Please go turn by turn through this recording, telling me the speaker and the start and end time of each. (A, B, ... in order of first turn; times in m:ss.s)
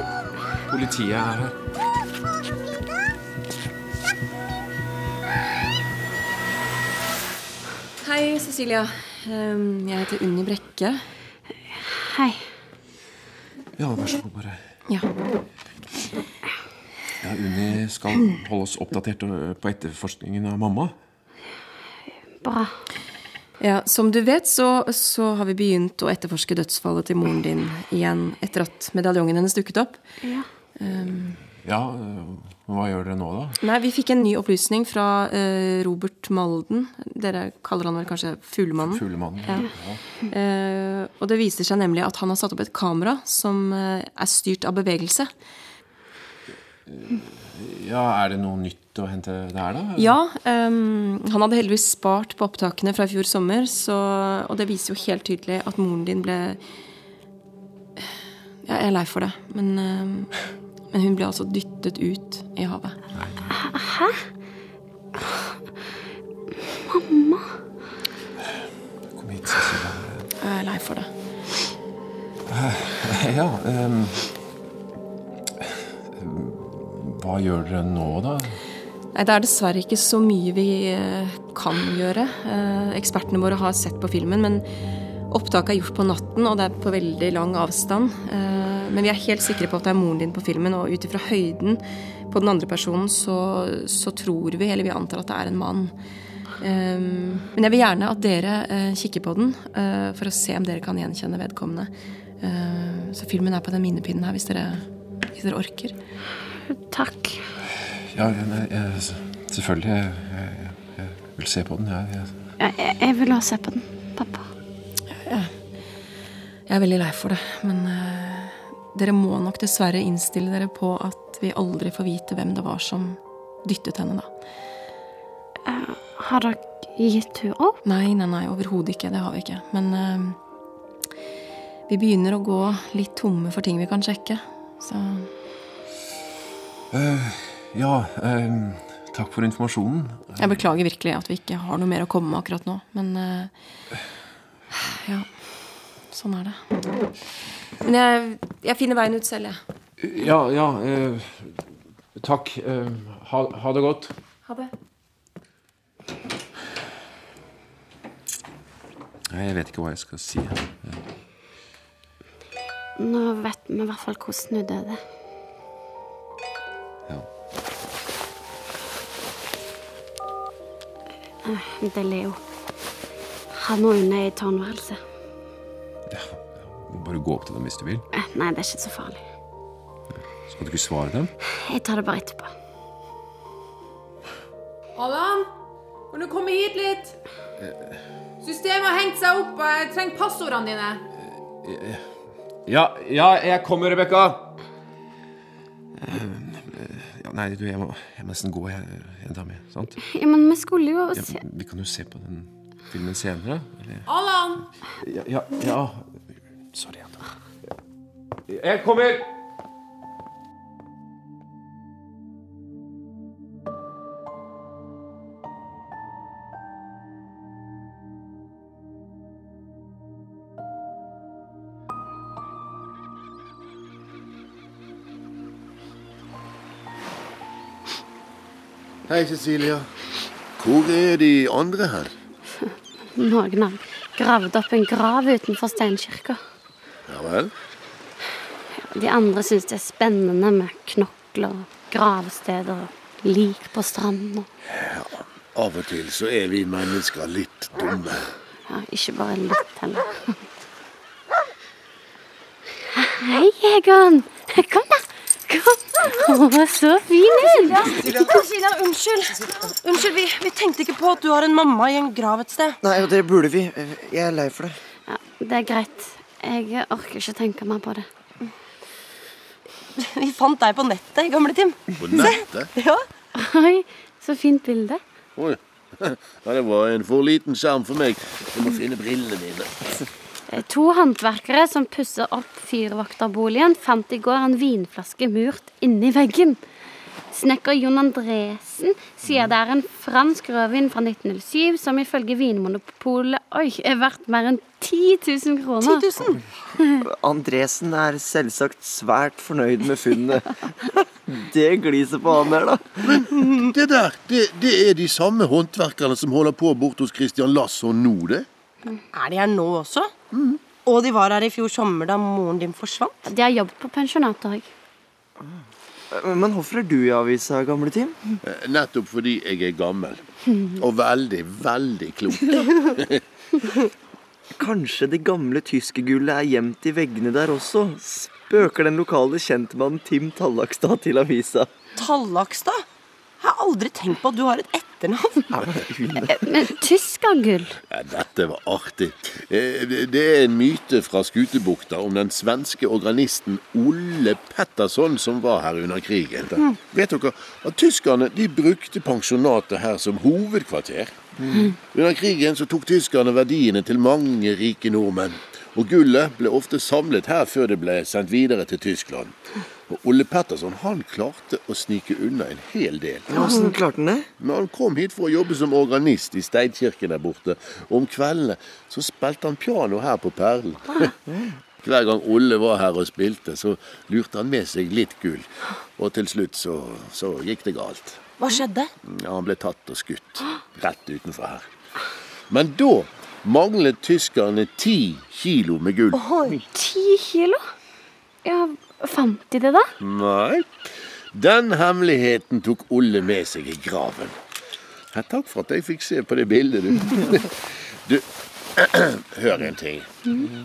0:00.7-0:01.5 A
0:08.0-0:11.0 B
0:11.9-0:12.4 C
0:13.8-0:14.6 A
0:17.2-0:20.9 A
0:22.4-0:22.7 C
0:23.6-0:30.0 B
0:30.2-0:30.5 C
0:30.8-0:31.4 B
0:31.5-0:33.6 A
0:33.6-0:39.7 B
0:38.8-0:40.0 A
0:40.3-0:45.3 B
0:46.9-0:50.2 A
0:50.0-0:56.6 B
0:58.6-1:00.3 B
1:00.9-1:03.0 B
1:03.1-1:03.5 A
1:03.5-1:04.2 C
1:06.7-1:07.5 C
1:09.1-1:10.3 A
1:10.4-1:11.1 B
1:12.5-1:14.3 A
1:16.2-1:18.6 A
1:19.1-1:24.6 B
1:25.3-1:35.9 B
1:36.6-1:41.9 B
1:42.4-1:45.9 B
1:46.7-1:47.4 C
1:48.1-1:52.3 A
1:52.6-1:54.5 C
1:55.1-1:55.5 B
1:56.7-2:04.3 B
2:05.6-2:07.8 C
2:07.8-2:10.4 B
2:11.9-2:15.3 B
2:16.9-2:20.5 A
2:20.4-2:23.5 B
2:24.7-2:25.3 B
2:26.1-2:26.6 B
2:27.8-2:29.6 B
2:30.0-2:31.6 A
2:32.2-2:34.1 A
2:39.3-2:41.0 A
2:43.0-2:45.0 C
2:51.4-2:52.4 C
2:53.5-2:55.0 C
2:56.1-2:58.0 A
2:58.1-2:59.2 C
3:00.5-3:01.3 A
3:01.6-3:02.5 C
3:05.0-3:05.5 D
3:06.1-3:07.2 D
3:07.6-3:08.0 A
3:08.4-3:11.0 D
3:11.6-3:12.0 A
3:12.7-3:14.5 A
3:16.0-3:20.0 A
3:20.1-3:21.4 C
3:21.1-3:24.1 A
3:24.0-3:24.6 D
3:25.0-3:26.2 A
3:26.7-3:27.2 A
3:28.5-3:29.3 A
3:49.1-3:49.9 E
3:50.6-3:52.1 E
3:52.7-3:56.4 C
3:57.1-3:57.5 E
3:58.8-4:04.5 C
4:04.7-4:08.3 E
4:08.7-4:10.4 C
4:13.0-4:18.0 C
4:17.4-4:22.8 F
4:17.8-4:18.3 G
4:22.8-4:24.8 G
4:25.1-4:28.0 C
4:30.0-4:33.0 F
4:32.0-4:32.7 E
4:33.4-4:35.0 C
4:35.4-4:40.0 E
4:40.5-4:46.6 C
4:47.3-4:56.1 C
4:55.8-4:56.4 F
4:57.0-5:03.2 G
5:03.2-5:08.5 E
5:09.1-5:10.1 F
5:10.3-5:10.7 E
5:10.8-5:13.3 F
5:13.2-5:14.7 C
5:16.1-5:18.2 G
5:18.4-5:23.2 E
5:24.6-5:31.7 G
5:32.0-5:32.8 F
5:33.4-5:35.5 F
5:35.5-5:36.4 G
5:36.3-5:37.8 C
5:37.9-5:51.2 E
5:51.4-5:51.7 G
5:51.9-6:03.4 E
6:03.3-6:04.3 G
6:04.4-6:11.0 E
6:11.2-6:11.5 G
6:11.8-6:18.3 E
6:18.4-6:18.9 F
6:19.0-6:21.7 E
6:22.5-6:26.2 E
6:26.1-6:26.6 F
6:26.7-6:27.6 C
6:28.4-6:29.9 C
6:30.0-6:34.4 E
6:35.1-6:40.1 E